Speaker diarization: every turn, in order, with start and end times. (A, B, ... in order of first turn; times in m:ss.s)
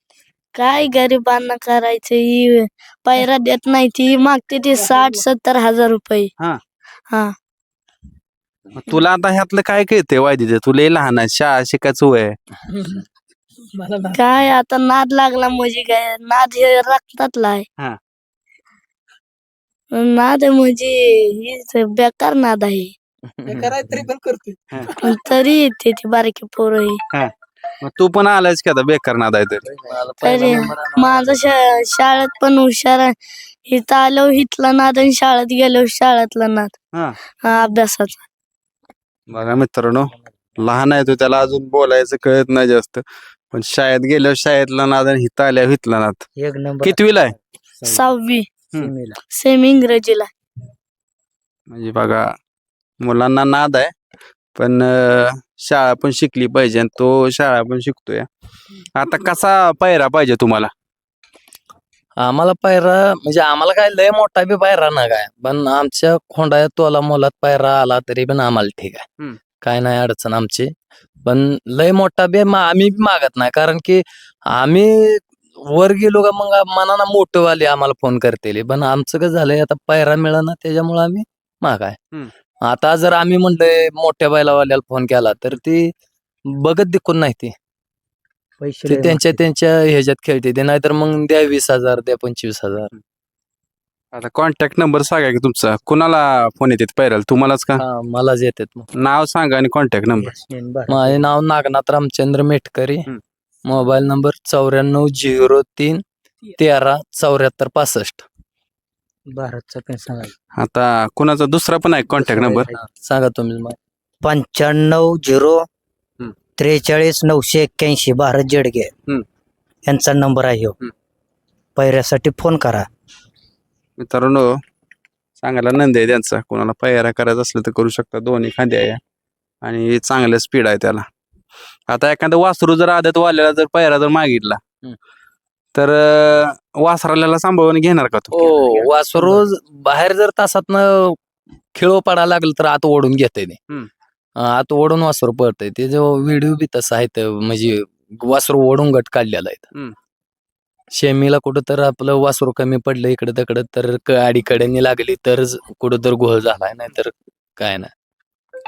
0:00.6-0:06.3 A
0:08.8-0:12.4 B
0:12.7-0:13.0 C
0:13.7-0:14.2 C
0:14.1-0:17.7 A
0:19.9-0:22.9 A
0:23.3-0:23.8 D
0:23.5-0:25.2 C
0:25.0-0:27.0 A
0:27.1-0:29.7 B
0:29.7-0:31.4 D
0:30.2-0:33.1 A
0:33.7-0:36.7 A
0:37.4-0:38.2 A
0:39.3-0:46.2 B
0:46.4-0:47.0 E
0:46.8-0:47.3 B
0:47.8-0:48.1 E
0:47.8-0:48.5 A
0:48.8-0:49.2 E
0:49.3-0:50.3 A
0:51.7-0:52.3 B
0:53.0-0:53.9 B
0:54.6-0:58.3 B
0:59.0-1:00.7 B
1:02.2-1:09.1 D
1:09.6-1:10.7 D
1:11.2-1:22.0 D
1:22.6-1:25.9 D
1:26.5-1:27.5 D
1:28.6-1:29.4 E
1:28.9-1:32.9 D
1:34.1-1:37.8 B
1:37.8-1:38.9 D
1:39.0-1:40.3 B
1:40.2-1:41.2 E
1:40.9-1:43.1 D
1:43.7-1:46.0 D
1:46.6-1:48.3 D
1:49.3-1:50.3 E
1:50.6-1:52.7 B
1:52.2-1:52.7 E
1:52.7-1:53.8 D
1:54.2-1:55.6 E
1:56.6-1:58.9 E
1:59.9-2:00.8 E
2:01.8-2:02.8 E
2:04.0-2:04.5 B
2:05.4-2:09.0 B
2:09.6-2:11.1 B
2:11.9-2:14.6 B
2:15.8-2:18.8 B
2:18.3-2:21.2 D
2:21.8-2:23.6 D
2:24.4-2:29.7 D
2:31.0-2:37.9 D